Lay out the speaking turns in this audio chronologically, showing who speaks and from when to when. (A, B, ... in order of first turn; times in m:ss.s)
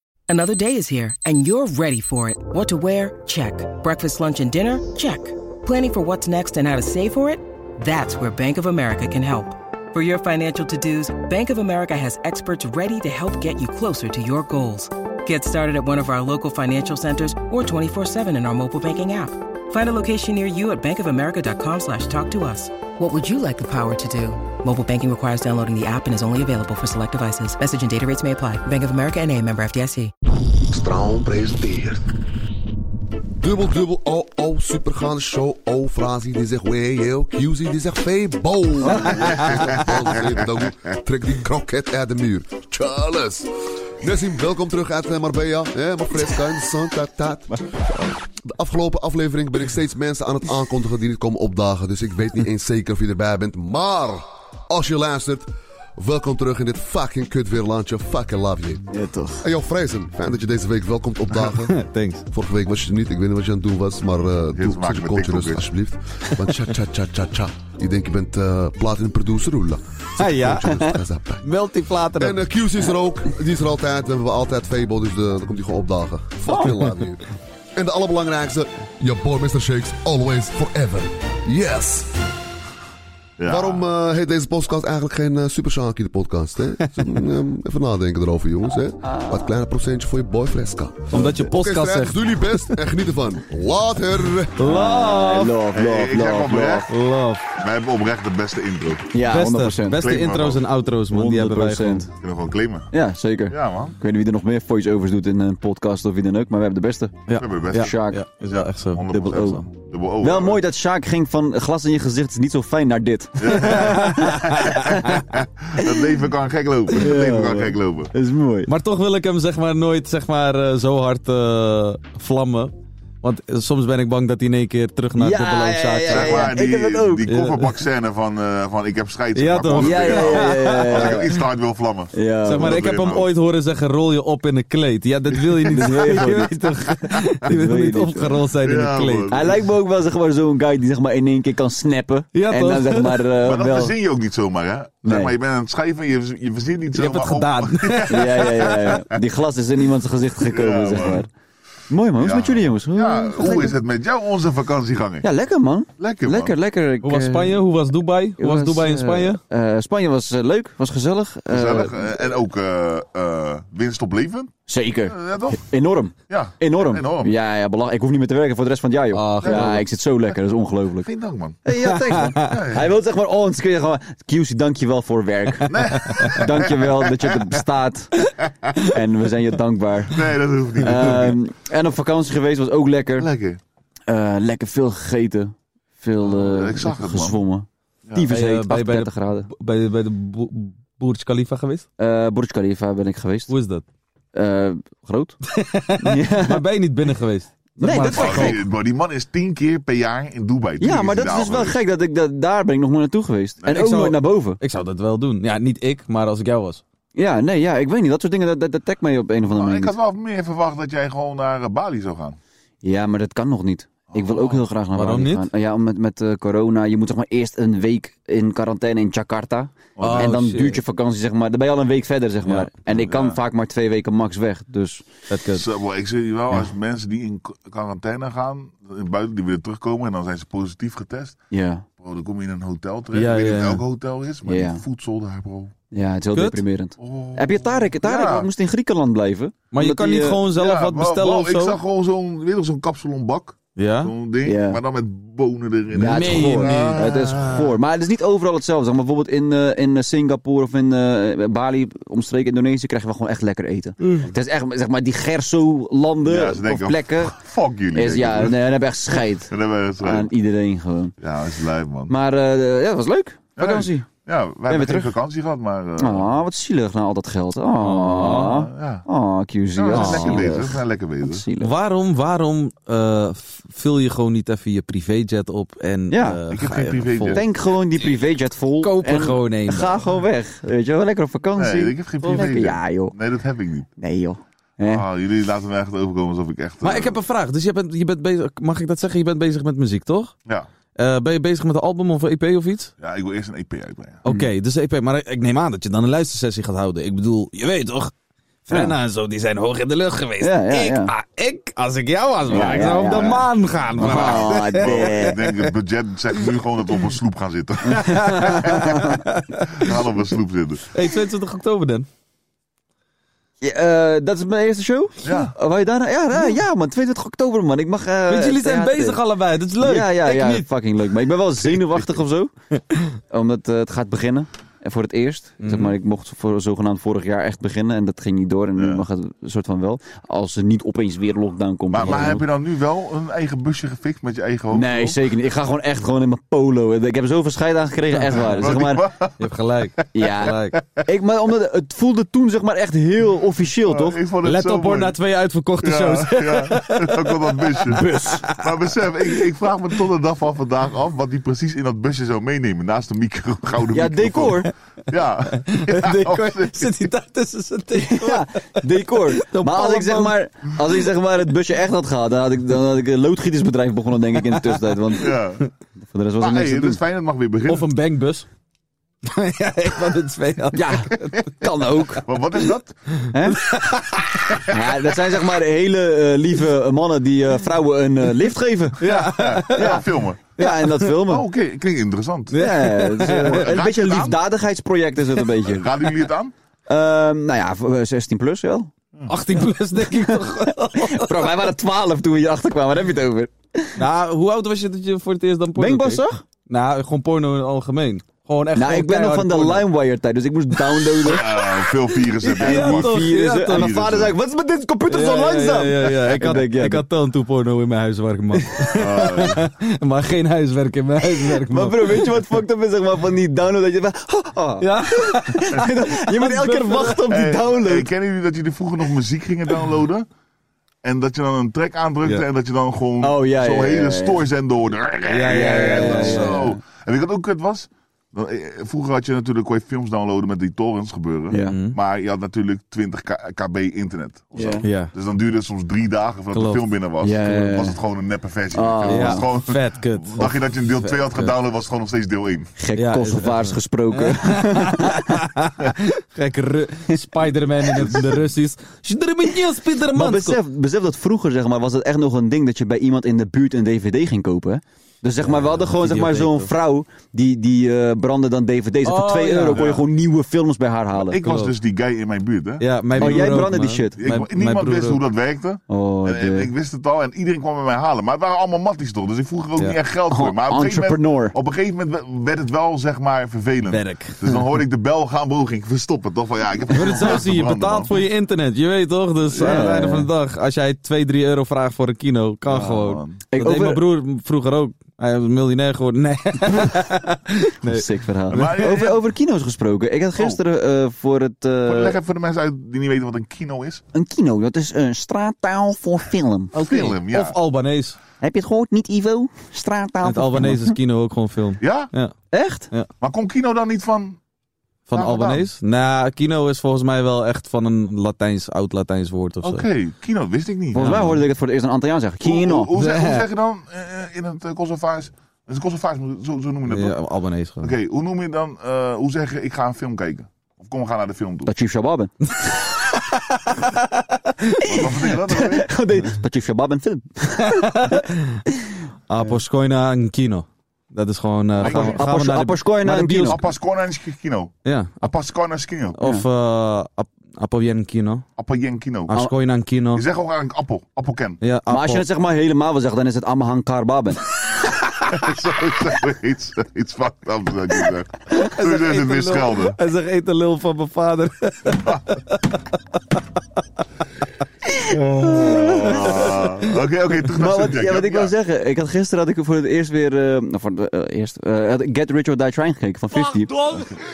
0:00.3-0:30.1 A
0:30.5-0:32.0 B
0:33.4-0:58.9 B
0:38.9-0:39.2 C
0:39.2-0:39.8 D
0:58.9-0:59.4 C
0:59.4-1:01.8 B
1:01.4-1:02.2 E
1:02.3-1:11.5 B
1:04.6-1:05.7 D
1:10.2-1:12.4 E
1:12.2-1:17.2 B
1:17.8-1:22.2 B
1:23.4-1:23.8 D
1:23.4-1:34.6 B
1:29.0-1:29.5 C
1:31.1-1:32.6 E
1:34.6-1:35.6 E
1:34.6-1:36.9 C
1:35.7-1:36.9 D
1:36.9-1:37.5 E
1:37.5-1:39.1 D
1:39.1-1:40.1 C
1:39.2-1:42.1 E
1:39.9-1:40.6 D
1:41.1-1:42.1 C
1:42.2-1:42.9 D
1:42.9-1:48.2 C
1:43.5-1:44.0 D
1:47.3-1:49.6 E
1:47.4-1:50.6 D
1:49.1-1:49.6 C
1:50.2-1:55.0 C
1:53.4-1:58.1 D
1:53.6-1:54.9 E
1:56.9-1:58.7 C
1:58.7-2:06.5 E
2:05.2-2:07.3 C
2:06.1-2:13.3 D
2:07.3-2:07.8 E
2:09.4-2:11.4 E
2:09.8-2:11.3 C
2:12.1-2:12.8 C
2:12.5-2:19.3 E
2:15.4-2:16.3 D
2:15.7-2:16.6 C
2:17.5-2:18.4 C
2:18.6-2:19.6 D
2:19.3-2:23.9 C
2:22.3-2:23.2 E
2:23.4-2:28.9 D
2:25.0-2:25.3 C
2:26.9-2:28.9 E
2:28.1-2:31.3 C
2:30.5-2:31.3 D
2:31.9-2:33.8 C
2:32.2-2:35.2 D
2:35.2-2:37.6 C
2:36.0-2:36.5 D
2:37.0-2:39.4 E
2:38.4-2:42.1 C
2:41.5-2:44.5 D
2:44.7-2:51.1 C
2:45.1-2:45.7 D
2:46.3-2:47.3 D
2:49.2-2:49.8 E
2:49.4-2:49.8 D
2:51.0-2:51.6 D
2:51.6-2:58.1 C
2:52.4-2:52.9 D
2:55.7-2:57.0 D
2:58.9-3:00.2 C
3:00.1-3:01.4 D
3:00.8-3:03.3 C
3:03.2-3:03.6 D
3:04.1-3:09.5 C
3:06.2-3:07.4 D
3:08.3-3:11.9 E
3:12.0-3:13.5 C
3:13.5-3:13.8 E
3:14.3-3:15.4 C
3:15.5-3:18.6 E
3:16.0-3:16.6 C
3:17.8-3:18.6 C
3:18.0-3:21.8 D
3:20.8-3:24.6 C
3:23.6-3:26.8 E
3:27.2-3:29.9 C
3:29.5-3:32.4 D
3:32.8-3:45.0 C
3:34.1-3:34.6 D
3:35.0-3:35.5 E
3:40.0-3:40.4 D
3:40.0-3:40.8 E
3:42.9-3:43.4 D
3:45.3-3:45.6 E
3:45.6-3:51.4 D
3:51.5-3:51.8 C
3:51.9-3:55.7 D
3:53.1-3:53.8 E
3:54.4-3:54.8 C
3:55.9-4:00.4 C
3:56.4-3:56.6 E
3:57.0-3:58.5 D
3:59.7-4:01.8 E
4:00.5-4:07.6 D
4:03.8-4:04.1 E
4:04.4-4:04.8 C
4:06.0-4:07.6 E
4:06.0-4:17.4 C
4:14.0-4:14.3 E
4:16.2-4:18.6 D
4:17.9-4:21.2 C
4:19.5-4:20.3 D
4:21.2-4:22.1 D
4:22.1-4:24.1 C
4:23.6-4:26.4 D
4:24.7-4:25.1 C
4:26.0-4:31.7 C
4:27.8-4:28.5 E
4:28.4-4:29.0 D
4:29.8-4:31.4 D
4:29.9-4:30.6 E
4:31.6-4:37.4 E
4:36.1-4:36.4 C
4:36.5-4:37.5 D
4:37.3-4:43.1 C
4:38.8-4:40.1 E
4:41.6-4:43.9 D
4:44.0-4:45.0 C
4:44.8-4:47.2 D
4:46.8-4:50.3 E
4:51.0-4:52.9 E
4:53.0-4:54.2 D
4:54.2-4:58.1 E
4:58.7-5:05.5 E
4:58.7-4:59.0 C
5:00.4-5:01.1 C
5:02.5-5:10.9 D
5:02.5-5:03.4 C
5:04.0-5:05.4 C
5:07.8-5:09.2 C
5:08.1-5:10.0 E
5:10.9-5:12.1 E
5:13.6-5:19.2 C
5:15.2-5:15.5 D
5:18.3-5:20.7 E
5:19.8-5:22.5 C
5:23.3-5:32.4 C
5:25.6-5:26.0 E
5:28.8-5:29.0 D
5:31.9-5:35.2 D
5:34.7-5:39.0 C
5:38.5-5:39.4 D
5:39.4-5:40.8 E
5:40.1-5:44.2 C
5:43.9-5:45.2 D
5:44.4-5:48.7 E
5:45.8-5:57.1 D
5:47.9-5:48.4 C
5:53.9-5:54.7 C
5:55.7-5:58.5 E
5:58.0-6:05.3 C
5:59.1-6:00.4 E
6:04.4-6:05.2 E
6:05.2-6:05.7 D
6:06.0-6:07.0 C
6:06.4-6:07.9 D
6:07.7-6:08.5 E
6:09.3-6:11.3 E
6:10.7-6:12.2 C
6:12.2-6:13.0 D
6:13.3-6:13.6 C
6:13.6-6:14.4 E
6:14.7-6:19.0 C
6:19.0-6:20.0 E
6:19.0-6:20.4 D
6:19.7-6:21.4 C
6:20.6-6:21.1 E
6:21.2-6:22.6 D
6:22.5-6:23.8 E
6:22.5-6:25.9 C
6:23.3-6:24.4 D
6:25.6-6:26.5 D
6:26.9-6:28.9 C
6:29.3-6:31.6 E
6:30.0-6:30.4 C
6:31.0-6:34.0 C
6:34.0-6:39.9 E
6:35.8-6:36.4 C
6:38.8-6:41.6 C
6:41.2-6:44.4 D
6:42.4-6:43.9 E
6:42.6-6:47.0 C
6:45.1-6:52.3 E
6:48.9-6:49.6 D
6:51.2-6:58.1 C
6:54.8-6:57.2 E
6:57.3-7:00.3 D
7:01.0-7:22.7 D
7:03.2-7:04.4 C
7:05.3-7:06.6 E
7:05.4-7:06.8 C
7:11.5-7:11.8 C
7:11.7-7:12.0 E
7:14.6-7:14.9 C
7:14.8-7:15.1 E
7:16.5-7:16.9 E
7:17.2-7:18.0 C
7:18.7-7:19.4 C
7:19.1-7:21.5 E
7:22.8-7:25.4 C
7:23.0-7:30.6 E
7:30.2-7:41.4 C
7:35.4-7:36.7 E
7:39.0-7:40.0 E
7:39.8-7:40.0 D
7:41.3-7:58.1 D
7:41.4-7:41.8 E
7:42.8-7:45.2 E
7:43.2-7:44.2 C
7:45.9-7:46.7 C
7:50.3-7:51.6 C
7:53.9-7:54.6 E
7:56.9-8:08.0 E
7:59.5-8:00.0 D
7:59.6-8:00.3 C
8:02.7-8:03.4 D
8:03.5-8:04.0 C
8:07.8-8:12.2 C
8:08.5-8:09.2 D
8:11.8-8:14.0 D
8:14.1-8:16.8 C
8:16.7-8:18.2 E
8:16.8-8:17.6 D
8:18.4-8:20.9 C
8:20.2-8:22.3 E
8:21.8-8:22.1 D
8:22.5-8:22.9 C
8:23.2-8:24.4 D
8:25.1-8:29.9 E
8:25.1-8:25.6 D
8:29.6-8:31.3 D
8:30.9-8:32.9 C
8:31.0-8:31.4 E
8:32.4-8:37.2 D
8:33.0-8:33.5 E
8:36.9-8:37.9 E
8:37.8-8:41.7 D
8:41.7-8:42.3 C
8:44.8-8:45.9 D
8:45.2-8:47.9 C
8:47.7-8:48.6 E
8:49.3-8:53.6 E
8:51.8-8:52.2 D
8:51.8-8:53.6 C
8:53.4-8:56.2 D
8:54.8-8:55.2 E
8:56.2-8:58.4 E
8:58.6-8:59.4 D
8:59.3-9:00.2 E
9:00.1-9:01.6 D
9:01.6-9:02.2 E
9:01.9-9:04.4 C
9:05.3-9:10.0 D
9:08.6-9:12.6 E
9:15.0-9:16.5 C
9:15.1-9:18.5 D
9:15.7-9:16.6 E
9:17.6-9:23.8 C